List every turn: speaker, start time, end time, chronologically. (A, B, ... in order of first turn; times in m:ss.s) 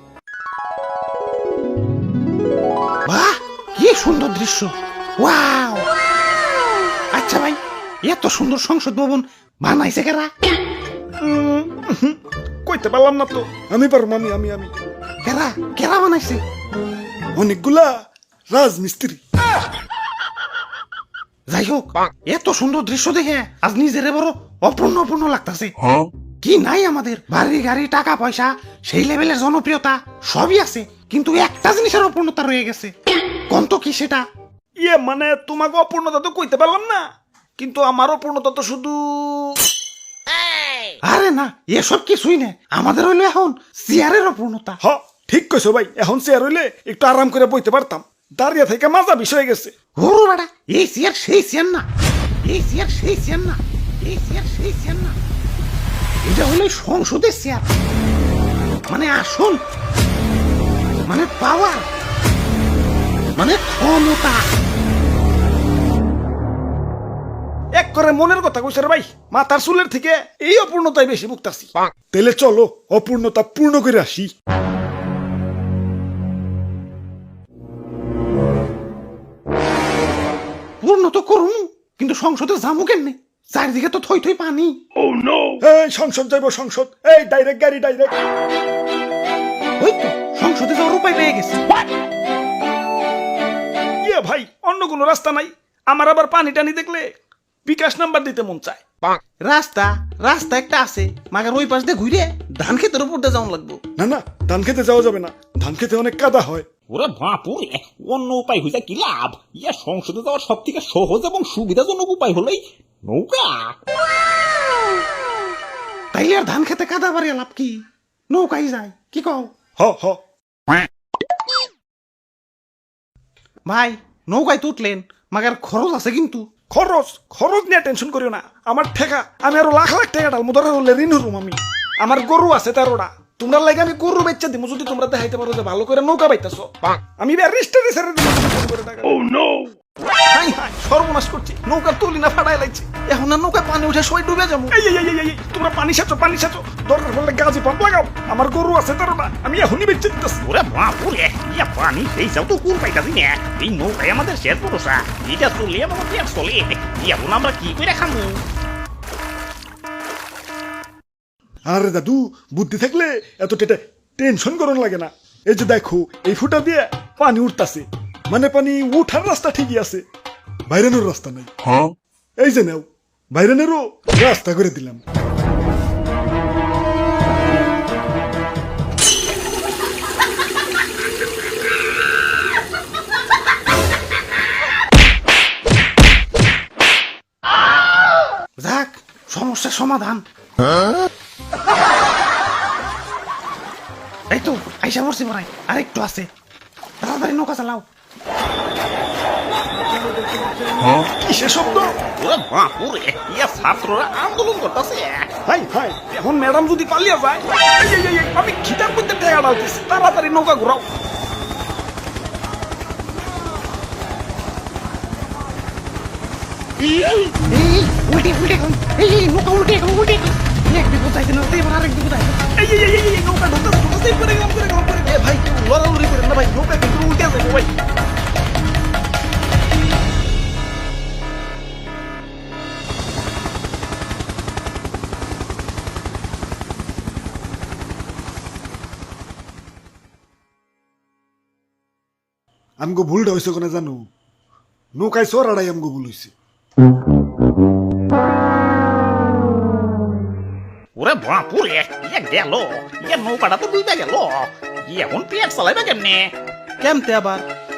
0:03.1-0:05.8 A
0:07.1-0:10.3 A
0:11.2-0:14.7 B
0:15.2-0:16.4 A
0:17.4-0:18.0 B
0:18.5-0:19.2 B
0:21.5-0:25.8 A
0:26.4-0:32.9 A
0:33.5-0:34.2 A
0:34.8-0:37.0 B
0:37.6-0:39.6 B
0:41.1-0:44.8 A
0:44.8-0:49.7 B
0:50.0-0:51.8 A
0:52.4-0:55.2 A
0:56.2-0:57.6 A
0:58.9-0:59.6 A
1:01.1-1:01.8 A
1:03.4-1:04.4 A
1:07.8-1:14.3 B
1:20.8-1:24.8 A
1:25.6-1:28.2 B
1:29.8-1:31.6 A
1:34.0-1:37.1 B
1:37.6-1:38.8 B
1:39.5-1:43.8 A
1:44.0-1:46.7 B
1:46.9-1:53.8 C
1:56.1-1:59.5 A
1:59.8-2:00.2 B
2:03.7-2:06.4 A
2:06.7-2:19.3 B
2:20.3-2:30.4 B
2:30.5-2:38.4 C
2:41.7-2:50.0 B
2:50.7-2:51.5 B
2:52.4-2:55.0 B
3:08.6-3:10.2 A
3:14.3-3:16.3 A
3:17.0-3:17.9 A
3:20.0-3:21.9 B
3:22.2-3:25.3 C
3:25.5-3:30.8 B
3:37.5-3:42.4 A
3:42.6-3:47.7 B
4:02.8-4:04.0 B
4:05.0-4:06.3 B
4:11.0-4:16.3 C
4:16.8-4:17.5 A